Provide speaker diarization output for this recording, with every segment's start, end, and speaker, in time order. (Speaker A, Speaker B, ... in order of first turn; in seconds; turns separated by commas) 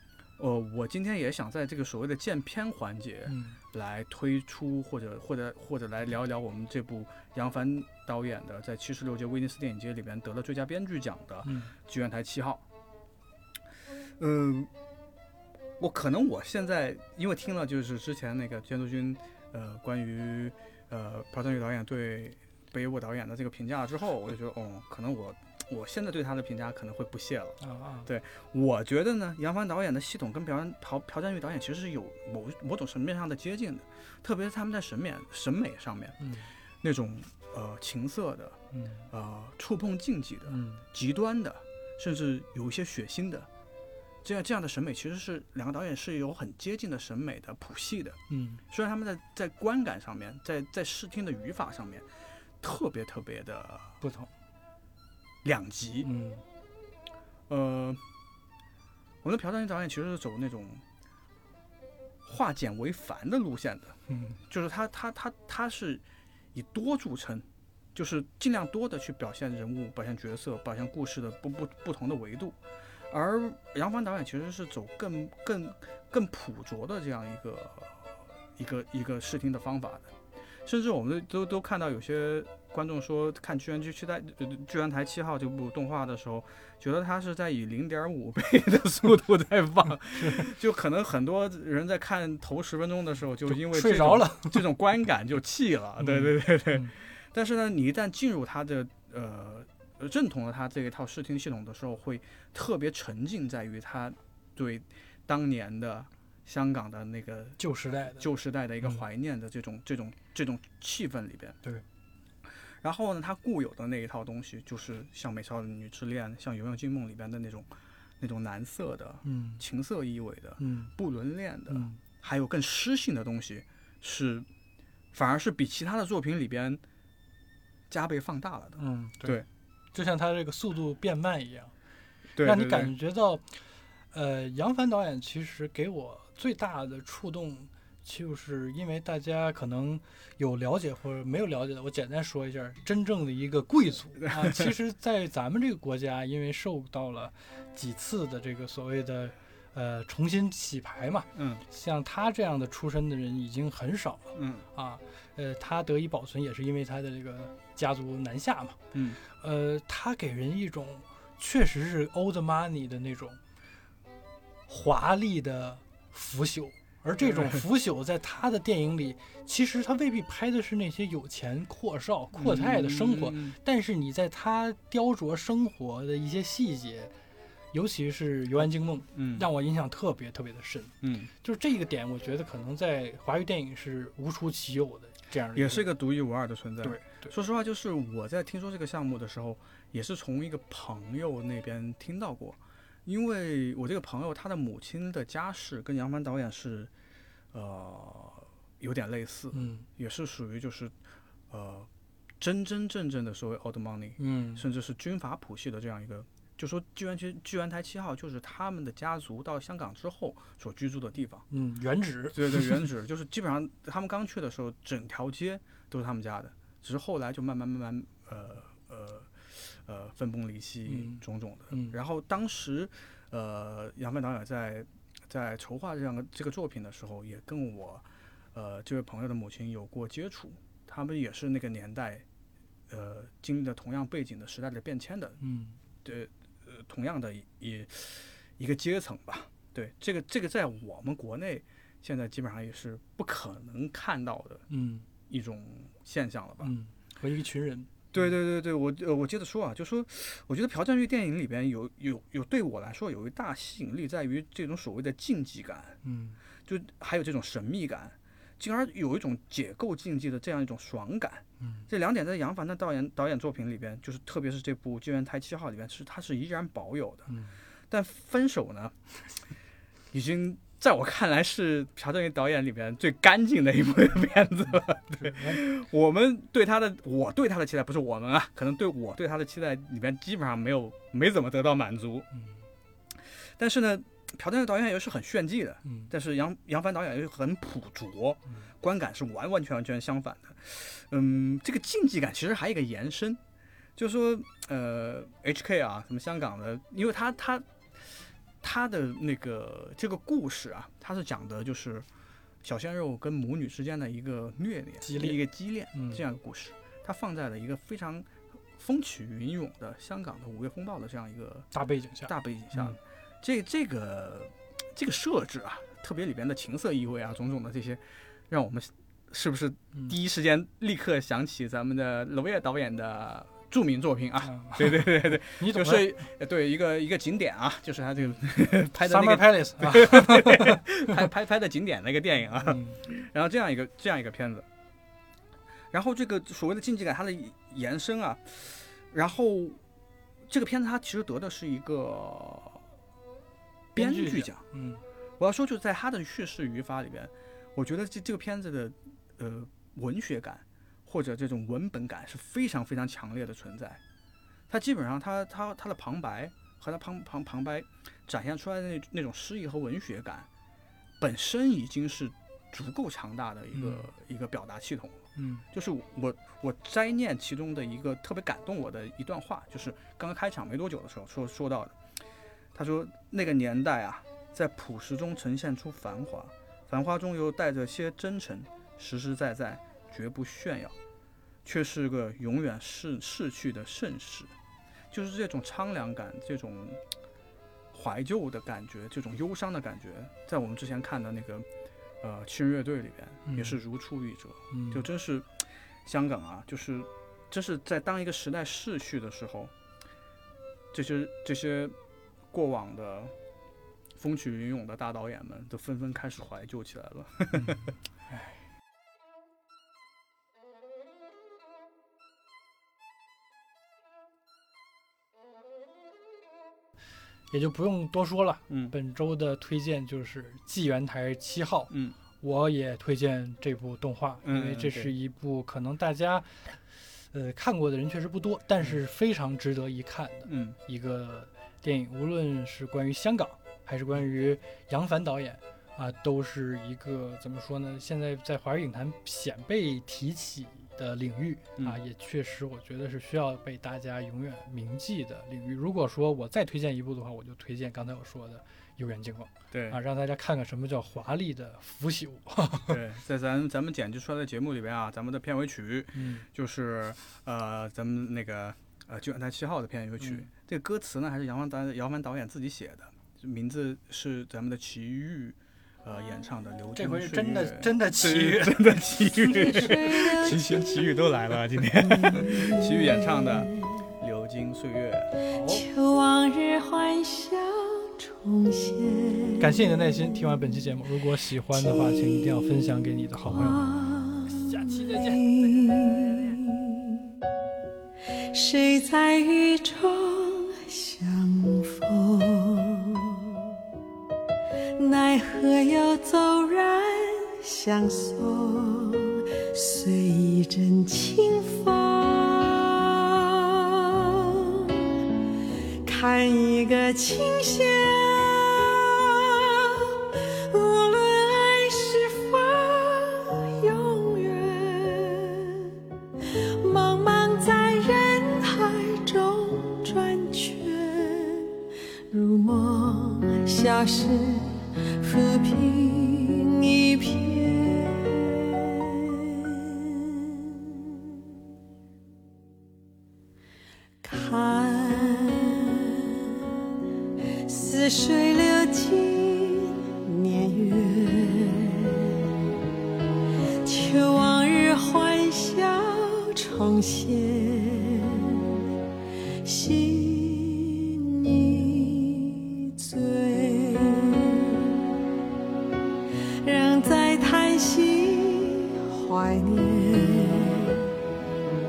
Speaker A: 0.4-12.6, Speaker B: 3.3-3.6, Speaker B: 11.4-11.7, Speaker A: 14.2-14.7, Speaker A: 15.8-36.2, Speaker B: 27.6-28.1, Speaker B: 36.2-36.5, Speaker A: 36.8-38.6, Speaker B: 38.7-39.0, Speaker A: 39.1-43.5, Speaker B: 40.5-40.8, Speaker A: 44.2-48.2, Speaker B: 48.3-48.6, Speaker A: 48.7-52.0, Speaker A: 52.6-54.0, Speaker B: 54.0-54.3, Speaker A: 55.4-56.1, Speaker B: 56.0-56.4, Speaker A: 57.5-58.0, Speaker A: 59.2-60.8, Speaker A: 62.2-64.0, Speaker B: 64.1-64.4, Speaker A: 64.5-66.0, Speaker A: 66.5-72.6, Speaker A: 73.1-107.6, Speaker B: 90.1-90.5, Speaker B: 93.5-94.6, Speaker B: 96.0-96.9, Speaker B: 107.6-108.3, Speaker A: 108.2-111.6, Speaker A: 112.8-117.7, Speaker A: 118.2-124.5, Speaker B: 119.2-119.6, Speaker B: 120.6-120.9, Speaker B: 121.7-122.0, Speaker A: 125.1-126.8, Speaker A: 127.9-129.4, Speaker B: 128.8-131.7, Speaker A: 132.3-132.9, Speaker B: 132.4-163.4, Speaker A: 151.3-151.6, Speaker A: 154.3-154.7, Speaker A: 158.9-159.2, Speaker B: 164.7-177.1, Speaker A: 167.2-167.6, Speaker A: 172.3-173.6, Speaker B: 177.7-185.9, Speaker A: 179.1-179.5, Speaker A: 181.0-181.3, Speaker A: 185.5-196.9, Speaker B: 186.8-187.3, Speaker A: 197.5-200.9, Speaker B: 199.5-199.8, Speaker A: 201.5-211.4, Speaker B: 204.2-204.6, Speaker B: 211.5-212.8, Speaker A: 212.3-232.2, Speaker B: 220.9-222.0, Speaker A: 232.9-235.4, Speaker B: 235.4-235.8, Speaker A: 236.0-244.6, Speaker B: 244.7-245.1, Speaker A: 245.3-246.7, Speaker B: 246.6-247.9, Speaker A: 248.1-256.0, Speaker B: 256.0-256.4, Speaker A: 256.6-267.4, Speaker B: 261.6-261.9, Speaker B: 267.3-267.6, Speaker A: 267.9-268.9, Speaker A: 270.1-282.3, Speaker B: 275.1-275.6, Speaker A: 283.2-293.4, Speaker B: 285.8-286.1, Speaker A: 293.9-298.0, Speaker A: 298.6-302.1, Speaker A: 302.6-311.7, Speaker B: 305.0-305.4, Speaker B: 305.9-306.2, Speaker B: 311.7-313.0, Speaker A: 312.2-334.6, Speaker B: 324.4-326.2, Speaker B: 329.0-331.1, Speaker B: 332.6-333.0, Speaker A: 335.9-339.8, Speaker A: 340.5-342.8, Speaker A: 343.9-344.6, Speaker B: 343.9-345.0, Speaker A: 345.4-354.0, Speaker A: 354.7-360.5, Speaker A: 361.2-372.0, Speaker B: 363.7-364.1, Speaker B: 365.4-365.6, Speaker A: 372.7-380.9, Speaker A: 381.6-384.5, Speaker A: 385.1-387.0, Speaker A: 387.9-391.7, Speaker A: 392.2-399.7, Speaker B: 393.4-393.8, Speaker B: 394.7-395.0, Speaker A: 400.9-401.9, Speaker A: 402.5-403.3, Speaker A: 404.1-407.9, Speaker B: 408.3-408.5, Speaker B: 417.5-426.8, Speaker A: 418.7-418.9, Speaker A: 421.9-422.2, Speaker A: 424.4-425.1, Speaker B: 427.3-453.0, Speaker A: 430.4-430.8, Speaker A: 449.7-450.0, Speaker A: 452.9-475.3, Speaker B: 456.1-456.5, Speaker B: 460.2-460.5, Speaker B: 466.9-469.9, Speaker C: 469.5-473.7, Speaker B: 475.5-475.9, Speaker C: 475.7-479.7, Speaker B: 479.6-483.8, Speaker C: 481.9-482.6, Speaker C: 483.5-487.1, Speaker B: 484.4-486.6, Speaker C: 488.5-493.6, Speaker C: 494.9-505.1, Speaker C: 506.0-521.7, Speaker C: 522.3-531.1, Speaker C: 534.2-536.7, Speaker C: 537.6-542.4, Speaker C: 543.8-548.8, Speaker C: 549.6-555.1, Speaker C: 556.6-561.2